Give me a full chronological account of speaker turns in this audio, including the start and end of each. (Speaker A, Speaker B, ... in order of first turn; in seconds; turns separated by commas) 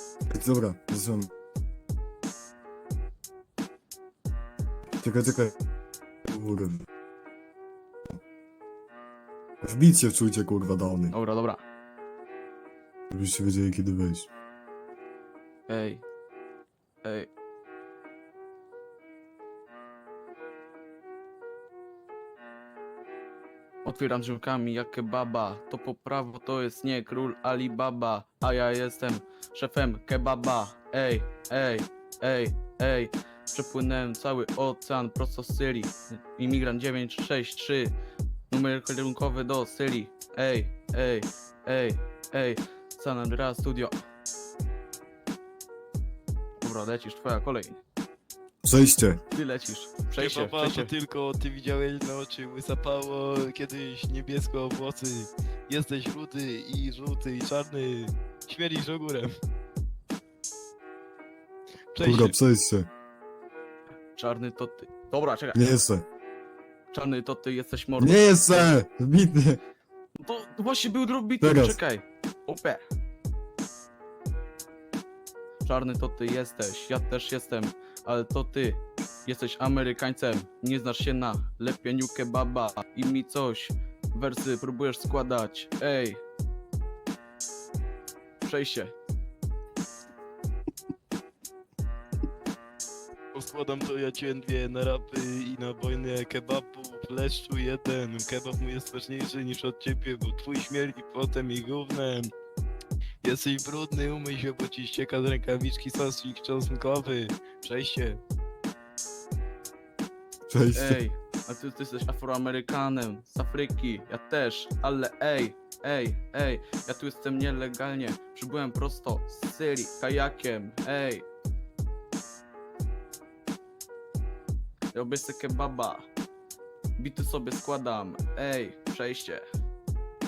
Speaker A: 0.3-1.3, Speaker A: 5.0-5.5, Speaker A: 6.3-6.8, Speaker A: 9.6-11.1, Speaker B: 11.1-11.6, Speaker A: 13.1-14.3, Speaker B: 15.7-16.0, Speaker B: 17.0-17.3, Speaker B: 23.8-37.9, Speaker B: 38.5-43.9, Speaker B: 46.6-47.8, Speaker A: 48.6-49.2, Speaker B: 49.3-50.9, Speaker C: 50.1-59.3, Speaker C: 61.9-62.3, Speaker A: 62.0-62.9, Speaker B: 64.2-65.6, Speaker A: 65.5-66.0, Speaker B: 66.9-68.6, Speaker A: 68.0-69.6, Speaker B: 70.2-72.8, Speaker A: 71.4-71.8, Speaker B: 75.6-86.2, Speaker B: 88.4-88.9, Speaker C: 93.3-102.3, Speaker C: 103.2-108.2, Speaker A: 110.5-111.0, Speaker B: 110.7-121.3, Speaker B: 124.9-126.1, Speaker B: 127.0-129.4